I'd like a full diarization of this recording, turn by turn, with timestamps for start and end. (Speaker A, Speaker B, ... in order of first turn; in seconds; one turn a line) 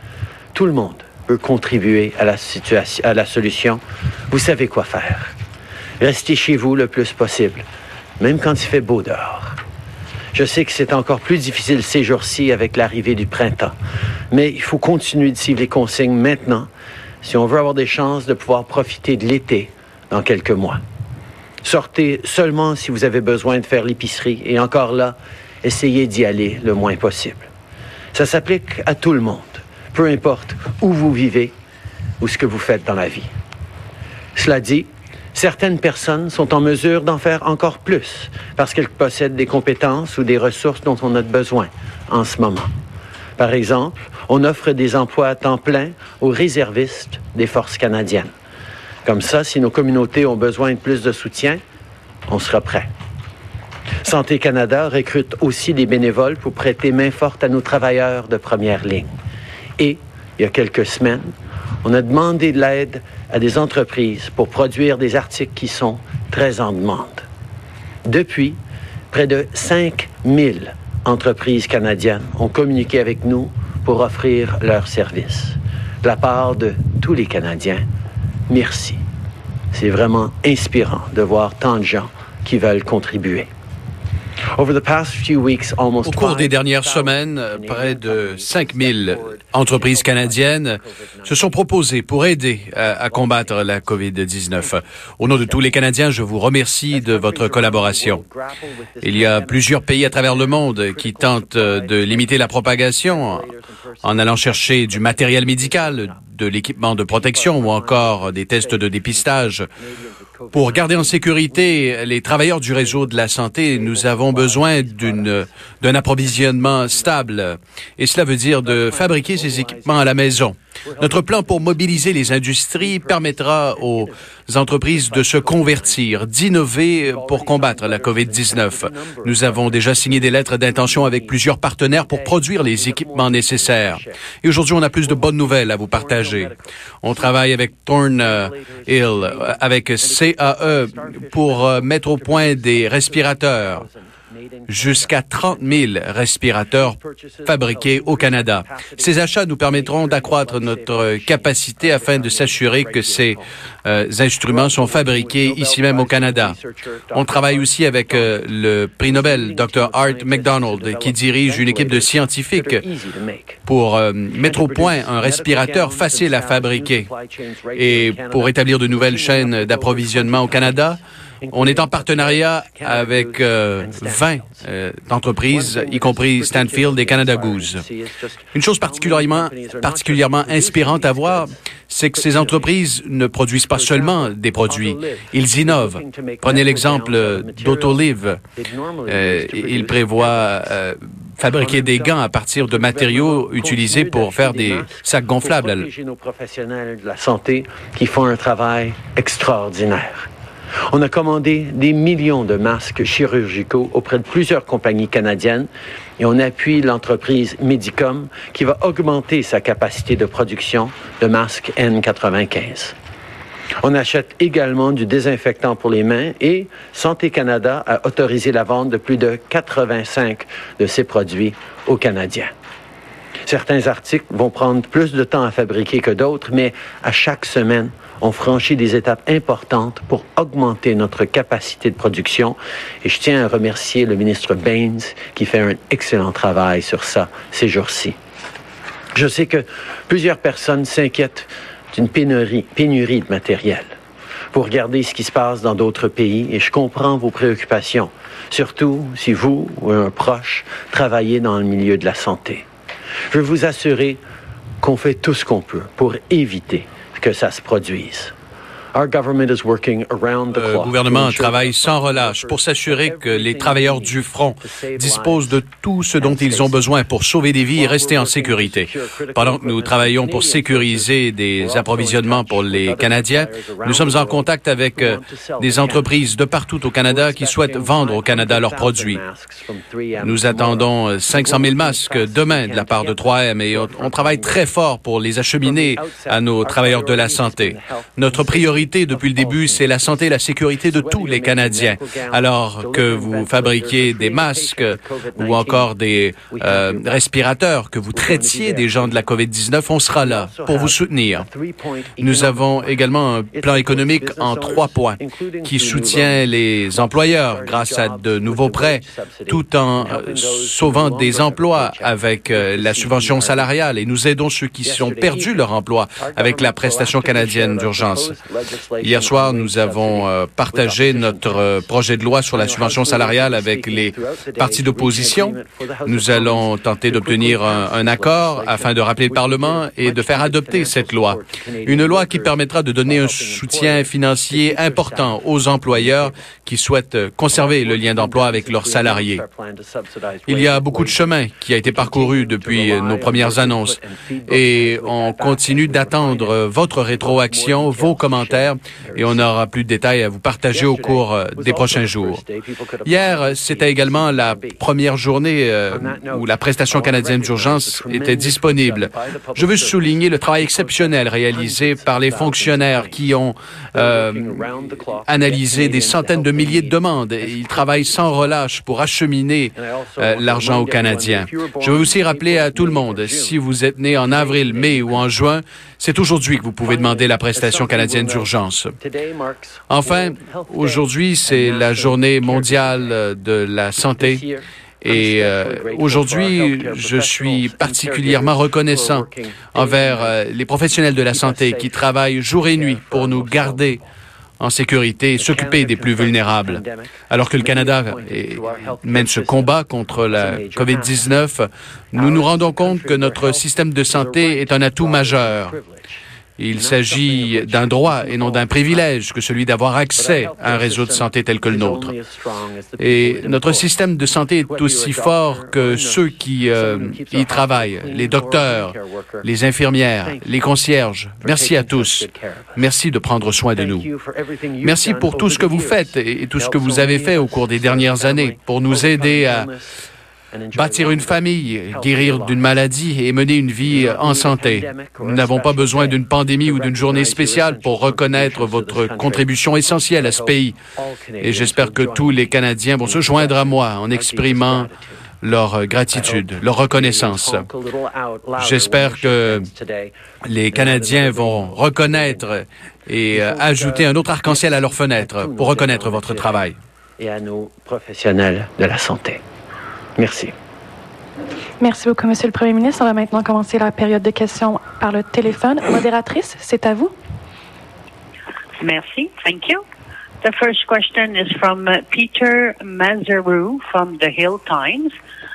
Speaker A: 0.5-5.4
Speaker A: 6.0-7.7
Speaker A: 8.2-9.6
Speaker A: 10.3-13.8
Speaker A: 14.3-16.7
Speaker A: 17.2-20.8
Speaker A: 21.6-27.5
Speaker A: 28.1-31.5
Speaker A: 32.2-33.3
Speaker A: 34.4-42.7
Speaker A: 43.4-48.3
Speaker A: 49.0-51.6
Speaker A: 52.3-52.9
Speaker A: 54.0-59.1
Speaker A: 59.8-61.3
Speaker A: 61.8-67.2
Speaker A: 68.0-68.6
Speaker A: 69.1-77.8
Speaker A: 78.5-79.0
Speaker A: 79.7-83.5
Speaker A: 84.5-91.7
Speaker B: 86.1-98.2
Speaker A: 92.7-94.0
Speaker A: 95.3-95.8
Speaker A: 96.9-106.2
Speaker B: 99.0-103.5
Speaker B: 104.0-109.7
Speaker A: 107.1-117.4
Speaker B: 110.5-136.5
Speaker A: 118.6-124.1
Speaker A: 124.9-126.1
Speaker A: 127.0-131.4
Speaker A: 131.9-134.3
Speaker A: 135.0-137.5
Speaker B: 137.0-143.8
Speaker A: 138.2-146.0
Speaker B: 144.7-146.9
Speaker A: 146.7-153.5
Speaker B: 147.5-156.6
Speaker A: 154.4-158.4
Speaker B: 157.1-162.8
Speaker A: 159.0-163.6
Speaker B: 163.7-167.1
Speaker A: 164.4-174.6
Speaker B: 167.8-171.0
Speaker B: 171.5-177.8
Speaker A: 175.5-181.6
Speaker B: 178.5-188.4
Speaker A: 182.1-182.8
Speaker A: 183.7-188.1
Speaker A: 188.6-190.7
Speaker B: 189.1-195.9
Speaker A: 191.5-200.3
Speaker A: 200.9-213.0
Speaker A: 213.8-222.5
Speaker A: 223.5-238.2
Speaker A: 239.1-243.9
Speaker A: 244.5-252.6
Speaker A: 253.3-254.2
Speaker A: 254.8-258.3
Speaker A: 258.9-265.6
Speaker B: 260.6-279.2
Speaker A: 266.2-266.9
Speaker A: 267.8-276.1
Speaker A: 277.0-284.7
Speaker B: 280.2-301.4
Speaker A: 285.6-290.4
Speaker A: 290.9-295.9
Speaker A: 296.5-297.2
Speaker A: 298.1-299.2
Speaker A: 300.2-303.0
Speaker B: 302.2-318.4
Speaker A: 303.5-313.8
Speaker A: 314.8-315.7
Speaker A: 316.2-321.8
Speaker B: 319.0-339.4
Speaker A: 322.5-336.3
Speaker A: 337.5-349.5
Speaker B: 340.5-344.0
Speaker B: 344.5-352.4
Speaker A: 350.7-354.8
Speaker B: 353.1-378.9
Speaker A: 355.9-363.3
Speaker A: 363.9-368.6
Speaker A: 369.8-373.6
Speaker A: 374.2-375.3
Speaker A: 376.8-383.2
Speaker B: 379.9-384.4
Speaker A: 384.1-390.4
Speaker B: 385.0-394.0
Speaker A: 391.3-394.0
Speaker B: 394.6-405.8
Speaker A: 395.4-401.3
Speaker A: 402.1-406.2
Speaker B: 406.6-412.1
Speaker A: 406.8-409.1
Speaker A: 410.2-414.0
Speaker B: 413.0-424.1
Speaker A: 414.7-419.5
Speaker A: 420.2-420.6
Speaker A: 421.4-422.9
Speaker A: 423.8-430.0
Speaker B: 424.8-429.7
Speaker A: 430.5-432.8
Speaker B: 430.7-440.8
Speaker A: 433.8-445.2
Speaker B: 441.4-444.9
Speaker B: 445.4-447.7
Speaker A: 446.1-450.1
Speaker B: 448.6-449.7
Speaker B: 450.5-456.8
Speaker A: 450.7-452.4
Speaker A: 453.3-459.4
Speaker A: 460.2-460.5
Speaker C: 461.8-467.1
Speaker D: 468.8-469.8
Speaker D: 470.4-475.1